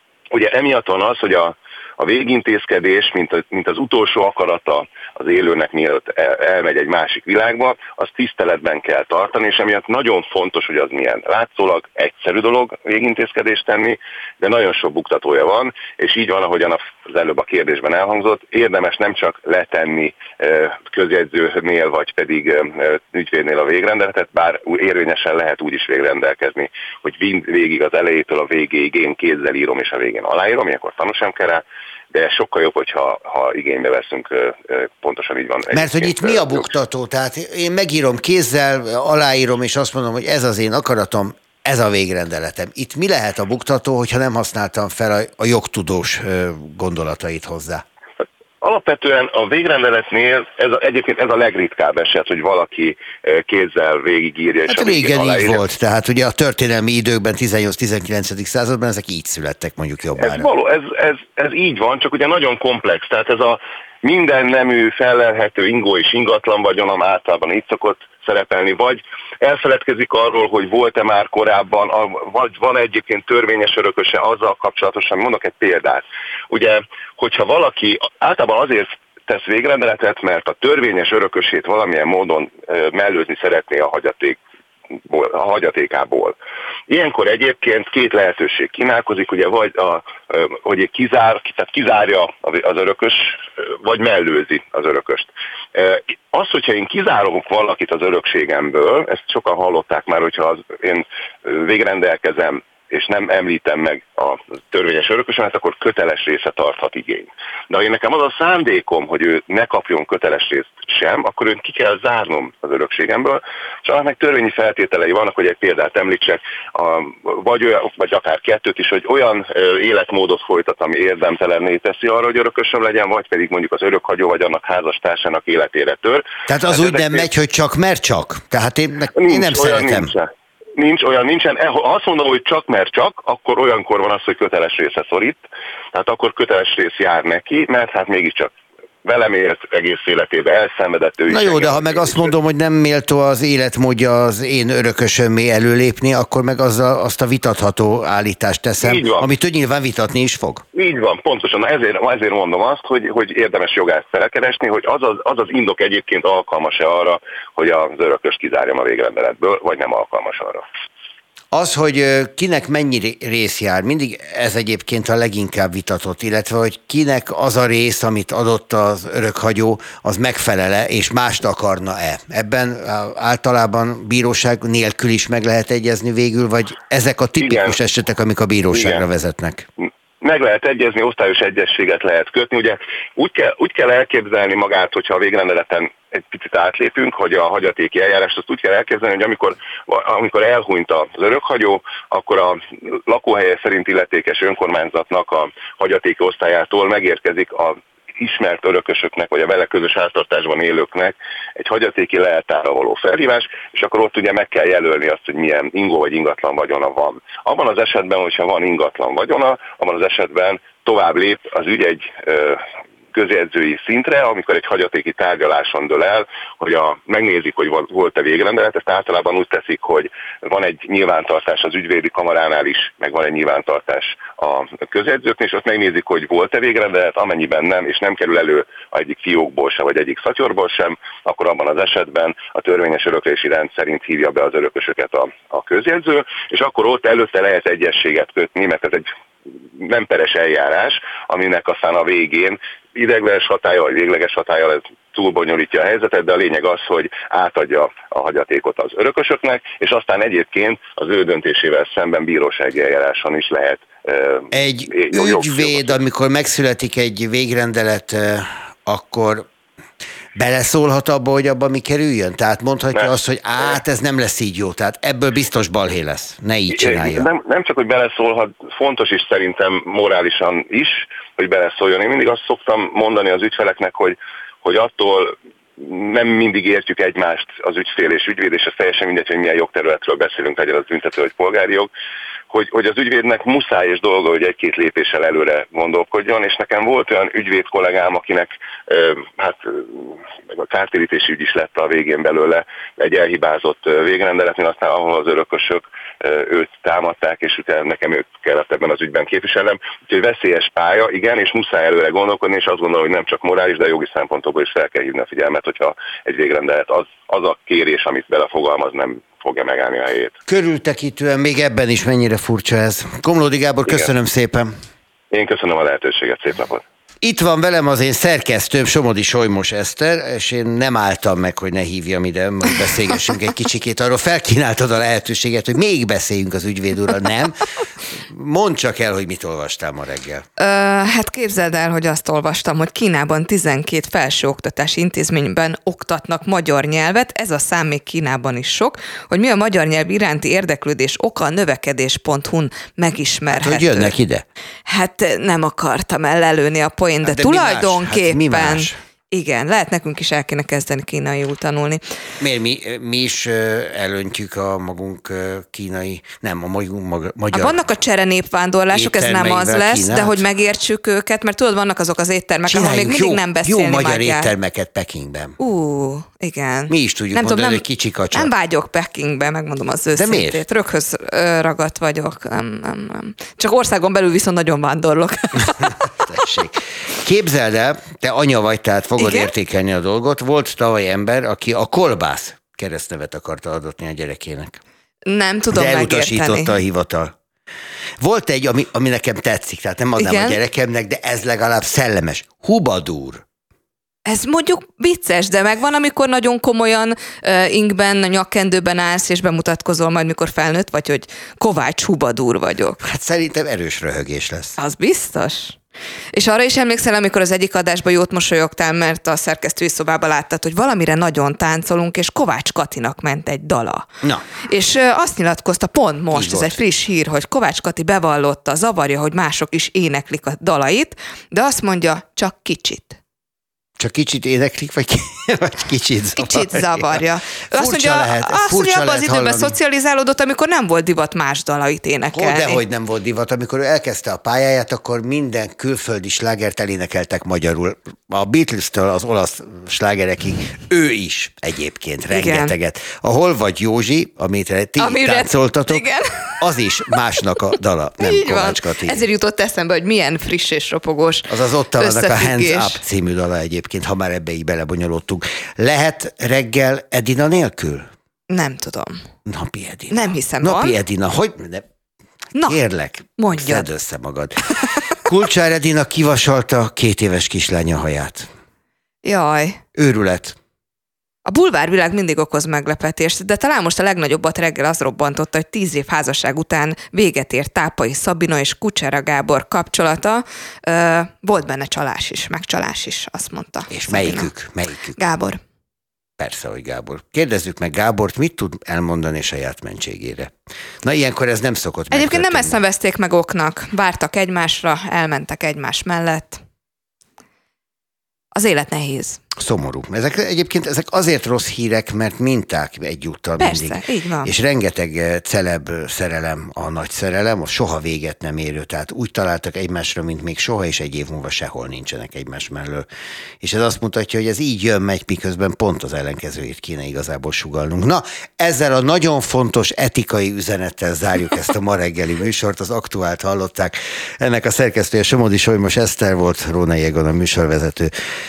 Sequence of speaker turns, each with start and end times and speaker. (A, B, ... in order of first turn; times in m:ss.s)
0:00.3-0:36.7 A
0:35.7-0:47.8 B
0:48.6-0:55.6 A
0:54.7-1:00.5 B
1:00.2-1:24.4 A
1:25.0-1:26.3 A
1:26.9-2:07.2 A
2:06.5-2:10.1 B
2:09.1-2:18.5 A
2:19.0-2:22.3 A
2:21.3-2:30.6 B
2:28.8-2:29.3 A
2:30.7-2:40.6 A
2:41.5-2:59.7 B
2:57.4-2:57.8 A
2:58.7-2:59.0 A
3:00.2-3:32.6 A
3:33.1-3:59.0 A
3:59.8-4:16.0 A
4:14.5-4:19.5 B
4:20.3-4:27.3 B
4:26.7-4:41.9 A
4:42.5-5:10.4 A
5:10.4-5:14.7 B
5:15.3-5:16.8 A
5:17.2-5:27.7 B
5:28.2-5:30.4 B
5:30.6-5:44.1 C
5:43.5-5:44.4 B
5:44.9-5:52.0 C
5:47.2-5:49.0 B
5:52.4-5:57.8 B
5:57.5-6:04.5 C
5:58.9-6:00.3 B
6:02.7-6:05.6 B
6:05.6-6:16.2 C
6:06.9-6:08.5 B
6:10.2-6:10.6 B
6:16.2-6:24.8 B
6:19.2-6:19.5 C
6:25.3-6:26.8 C
6:25.7-6:27.3 B
6:28.2-6:33.4 B
6:30.2-6:30.6 C
6:34.2-6:43.0 C
6:43.0-6:44.7 B
6:44.8-6:45.8 C
6:46.3-6:54.0 C
6:54.7-7:03.2 C
6:56.3-6:56.8 B
7:04.0-7:07.2 B
7:06.4-7:12.8 C
7:07.8-7:09.7 B
7:12.3-7:26.0 B
7:22.3-7:22.7 C
7:25.0-7:27.2 C
7:26.6-7:29.2 B
7:28.2-7:33.0 C
7:31.5-7:38.1 B
7:38.5-7:39.2 C
7:39.4-7:41.8 B
7:40.1-7:41.0 C
7:42.5-7:42.8 C
7:42.6-7:44.6 B
7:43.4-7:43.9 C
7:45.2-7:48.5 B
7:49.2-7:49.8 C
7:50.0-7:50.6 B
7:51.4-8:04.5 C
8:03.9-8:05.2 B
8:05.2-8:05.6 C
8:06.4-8:12.8 B
8:12.1-8:16.6 C
8:18.5-8:19.4 C
8:19.6-8:33.0 B
8:23.6-8:24.5 C
8:33.6-8:48.1 B